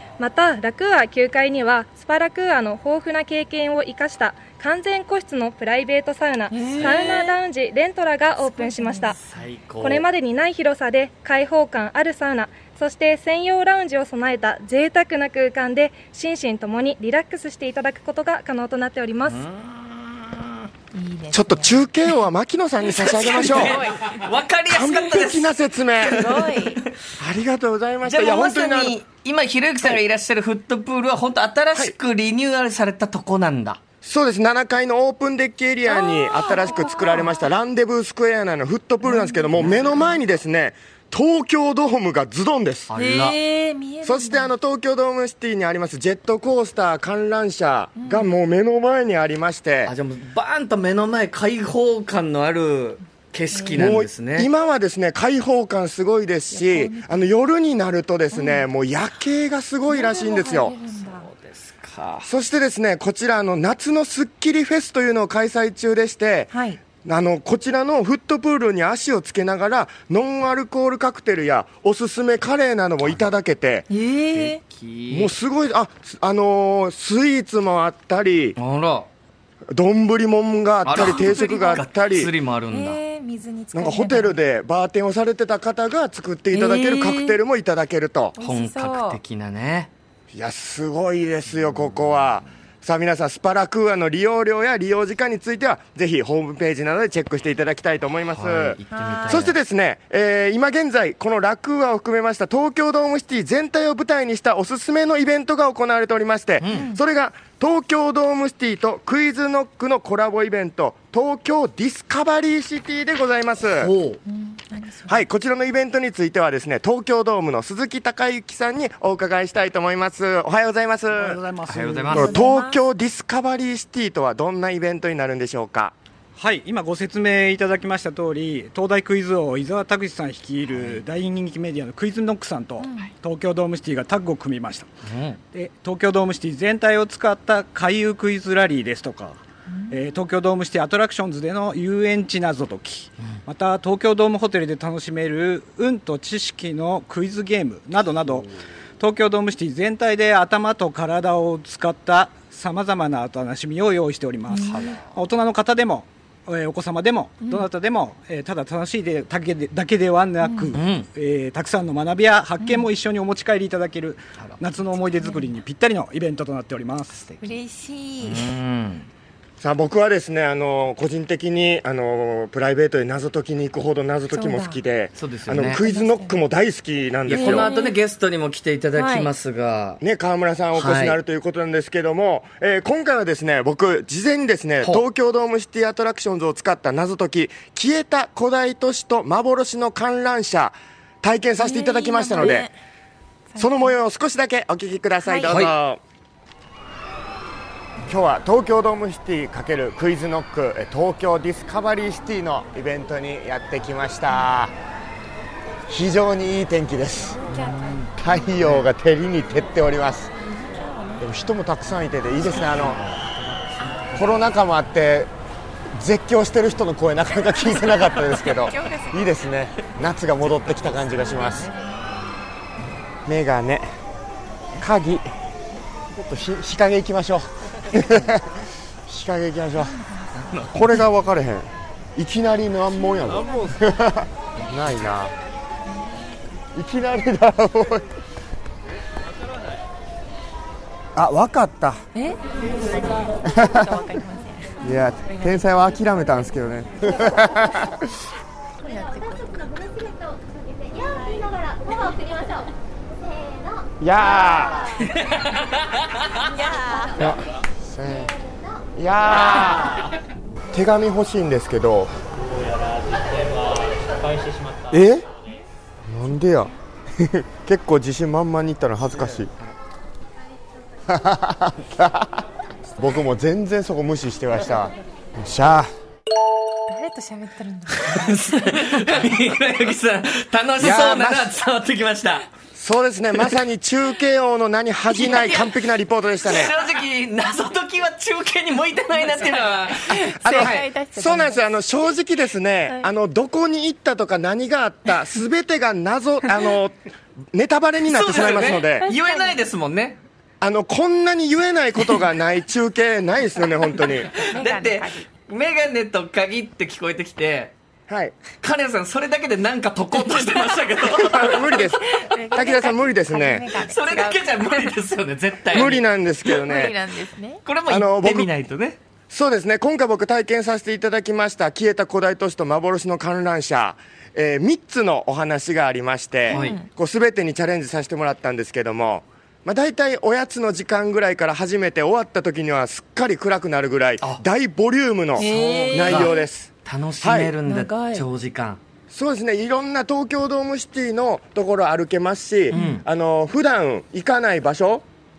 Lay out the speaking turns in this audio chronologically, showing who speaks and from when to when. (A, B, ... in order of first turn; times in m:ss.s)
0:00.2-0:09.2 A
0:06.5-0:07.3 B
0:06.7-0:07.3 C
0:08.4-0:09.2 B
0:09.1-0:10.0 C
0:09.8-0:19.4 A
0:19.2-0:20.6 C
0:20.9-0:21.9 B
0:21.3-0:23.8 D
0:22.9-0:26.6 C
0:23.5-0:24.2 B
0:24.7-0:26.2 D
0:26.0-0:26.8 B
0:27.2-0:29.0 D
0:28.0-0:33.8 C
0:34.0-0:42.9 D
0:35.9-0:37.4 B
0:39.0-0:40.0 B
0:39.6-0:40.0 C
0:42.9-0:43.4 C
0:43.0-0:44.5 B
0:44.0-0:49.9 D
0:48.0-0:48.3 B
0:49.8-0:54.5 C
0:53.5-0:53.9 B
0:53.7-1:00.7 D
0:56.5-0:57.3 B
0:58.3-0:58.6 B
0:59.9-1:01.3 B
1:01.0-1:02.3 C
1:02.2-1:13.9 D
1:06.5-1:06.8 B
1:13.0-1:13.3 C
1:13.9-1:14.6 B
1:14.3-1:15.3 C
1:15.1-1:18.6 D
1:18.6-1:19.1 C
1:19.7-1:22.3 D
1:20.8-1:23.0 C
1:20.9-1:21.8 B
1:22.7-1:24.3 B
1:23.7-1:28.4 D
1:26.5-1:27.4 B
1:28.4-1:29.2 B
1:28.4-1:29.9 C
1:30.3-1:53.9 D
1:31.7-1:32.1 C
1:38.3-1:39.6 C
1:38.9-1:39.5 B
1:46.6-1:46.9 C
1:53.7-1:54.2 C
1:54.2-1:55.2 B
1:55.1-2:01.4 D
2:01.1-2:02.3 E
2:01.7-2:02.4 C
2:02.1-2:05.9 D
2:02.1-2:02.8 B
2:06.4-2:14.9 E
2:10.7-2:11.0 C
2:12.8-2:13.1 B
2:15.0-2:15.4 C
2:15.5-2:47.2 E
2:19.7-2:20.0 B
2:34.5-2:34.8 B
2:34.6-2:35.1 C
2:37.4-2:37.7 B
2:40.4-2:40.8 B
2:40.7-2:41.1 C
2:42.6-2:42.9 B
2:45.1-2:45.5 B
2:47.1-2:47.6 C
2:47.4-2:48.5 B
2:48.2-2:49.1 C
2:49.6-2:57.7 D
2:54.3-2:54.8 B
2:55.1-2:55.8 C
2:55.7-2:56.4 B
2:57.3-3:00.0 C
2:57.3-2:58.0 B
2:58.9-2:59.3 B
3:00.0-3:12.7 D
3:00.7-3:01.2 C
3:11.6-3:12.8 B
3:13.5-3:13.9 B
3:13.6-3:16.0 D
3:15.2-3:15.5 B
3:15.4-3:15.7 C
3:18.1-3:24.7 D
3:25.9-3:27.4 D
3:27.4-3:28.4 B
3:27.5-3:28.9 C
3:28.2-3:30.3 D
3:30.4-3:31.4 B
3:31.2-3:33.0 D
3:32.7-3:33.2 C
3:33.9-3:34.3 B
3:34.1-3:35.3 D
3:36.0-3:41.7 D
3:37.6-3:39.4 B
3:40.4-3:42.3 C
3:43.2-3:43.9 D
3:44.8-3:45.3 D
3:46.1-3:48.4 D
3:49.1-3:49.9 D
3:49.8-3:50.9 B
3:50.3-3:50.8 C
3:50.7-3:55.3 D
3:55.9-3:56.3 B
3:56.7-3:58.0 D
4:01.2-4:02.0 D
4:03.4-4:05.6 B
4:04.8-4:08.0 D
4:08.8-4:09.9 B
4:14.0-4:15.0 D
4:16.4-4:17.3 B
4:17.9-4:18.3 D
4:19.0-4:19.9 D
4:20.7-4:22.1 D
4:24.9-4:25.2 D
4:26.1-4:29.5 D
4:31.1-4:32.4 D
4:33.0-4:35.9 D
4:36.9-4:38.3 B
4:38.0-4:42.5 C
4:40.8-4:41.5 D
4:42.7-4:46.7 D
4:45.1-4:45.7 C
4:46.4-4:50.8 C
4:50.0-4:51.9 B
4:50.4-4:56.9 D
4:57.5-4:59.1 D
4:58.0-5:00.2 C
4:59.0-4:59.6 B
5:00.6-5:04.3 D
5:04.3-5:07.7 C
5:04.5-5:05.3 B
5:08.1-5:08.4 D
5:08.6-5:11.7 C
5:11.0-5:12.0 D
5:11.1-5:14.9 B
5:12.5-5:13.6 D
5:13.8-5:16.0 C
5:15.7-5:17.0 D
5:16.5-5:17.6 B
5:17.6-5:19.0 C
5:17.9-5:18.5 D
5:19.3-5:37.5 D
5:26.5-5:26.9 B
5:26.5-5:26.8 C
5:35.4-5:36.3 C
5:35.4-5:36.5 B
5:36.8-5:38.8 C
5:37.7-5:38.2 B
5:39.1-5:45.0 D
5:42.7-5:43.0 C
5:42.7-5:43.0 B